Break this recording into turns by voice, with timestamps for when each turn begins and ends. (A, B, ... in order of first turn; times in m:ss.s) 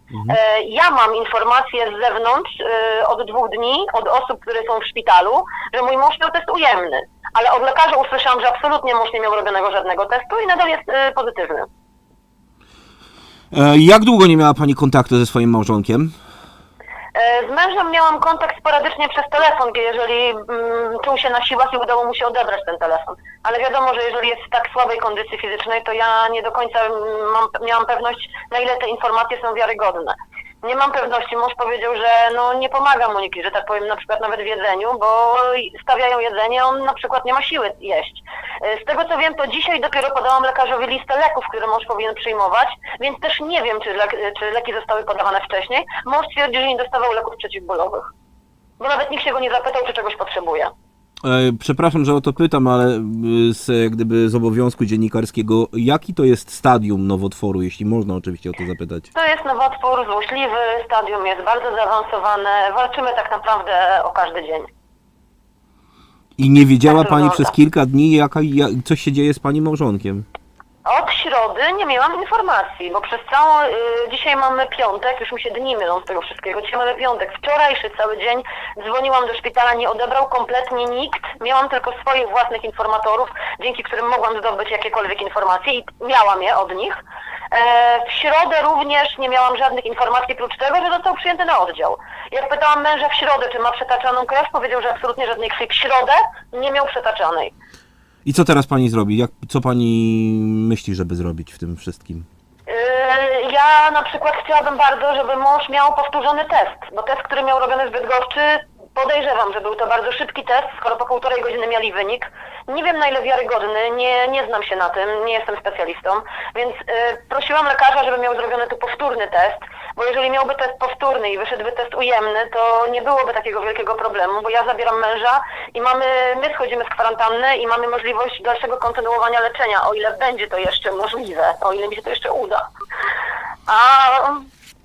0:00.2-0:11.7 A
0:13.5-0:16.1 B
0:17.1-0:48.1 A
0:48.8-0:50.7 A
0:51.2-0:59.1 B
0:59.1-1:04.7 A
1:06.4-1:10.2 B
1:06.8-1:07.5 A
1:10.8-1:37.5 A
1:38.2-1:42.2 B
1:42.7-2:12.7 A
2:13.7-2:14.5 A